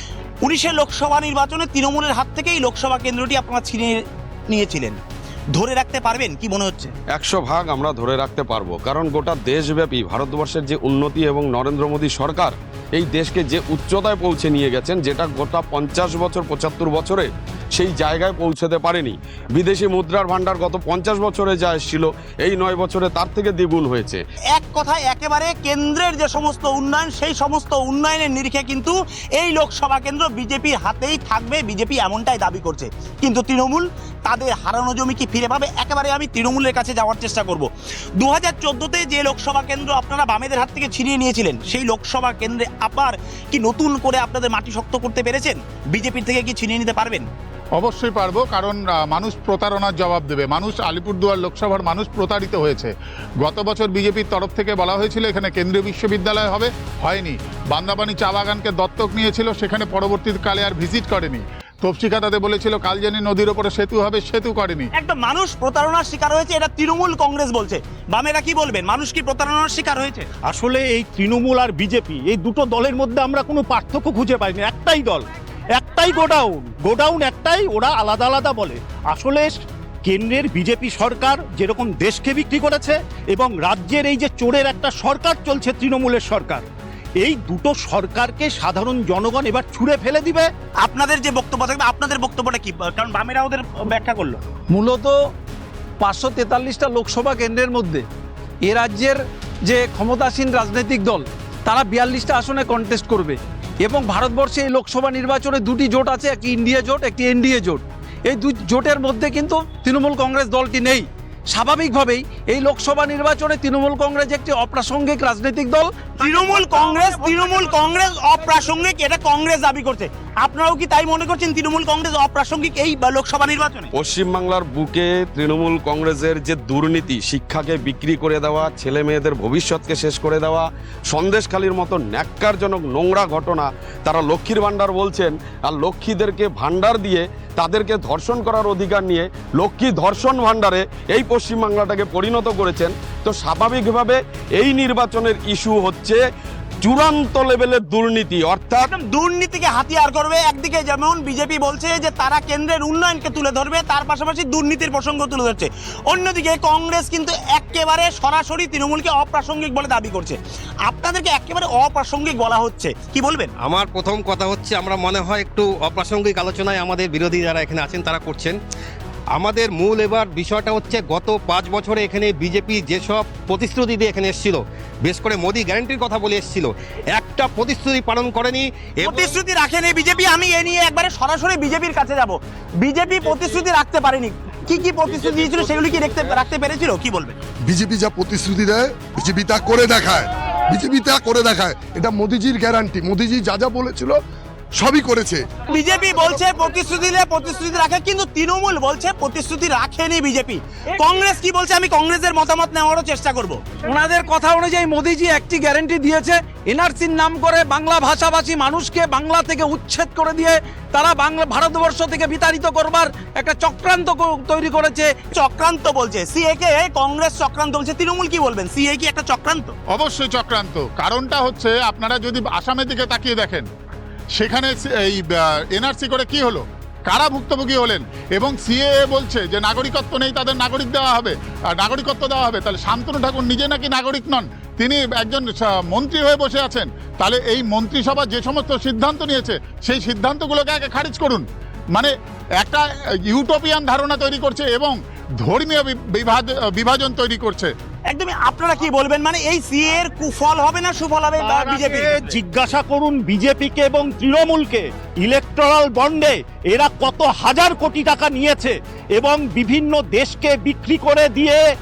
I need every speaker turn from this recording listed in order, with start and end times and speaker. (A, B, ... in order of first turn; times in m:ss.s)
0:00.4-0:05.0 A
0:05.5-0:06.9 A
0:07.1-0:24.2 B
0:24.5-0:47.3 A
0:47.8-1:04.9 C
1:05.0-1:10.3 A
1:10.4-1:26.6 D
1:27.2-1:30.5 D
1:30.8-1:34.4 A
1:34.7-1:35.2 E
1:36.0-1:38.0 E
1:38.6-1:56.1 E
1:56.2-2:03.9 A
2:03.9-2:26.2 B
2:26.8-2:28.9 B
2:28.8-2:43.5 A
2:43.6-2:48.6 F
2:49.4-2:59.4 F
2:59.0-3:07.4 A
3:07.7-3:14.2 G
3:14.8-3:15.4 G
3:15.7-3:23.6 A
3:23.8-3:35.1 E
3:35.3-3:39.7 A
3:39.9-3:43.6 C
3:44.4-4:07.7 C
4:08.1-4:12.3 A
4:11.4-4:21.6 D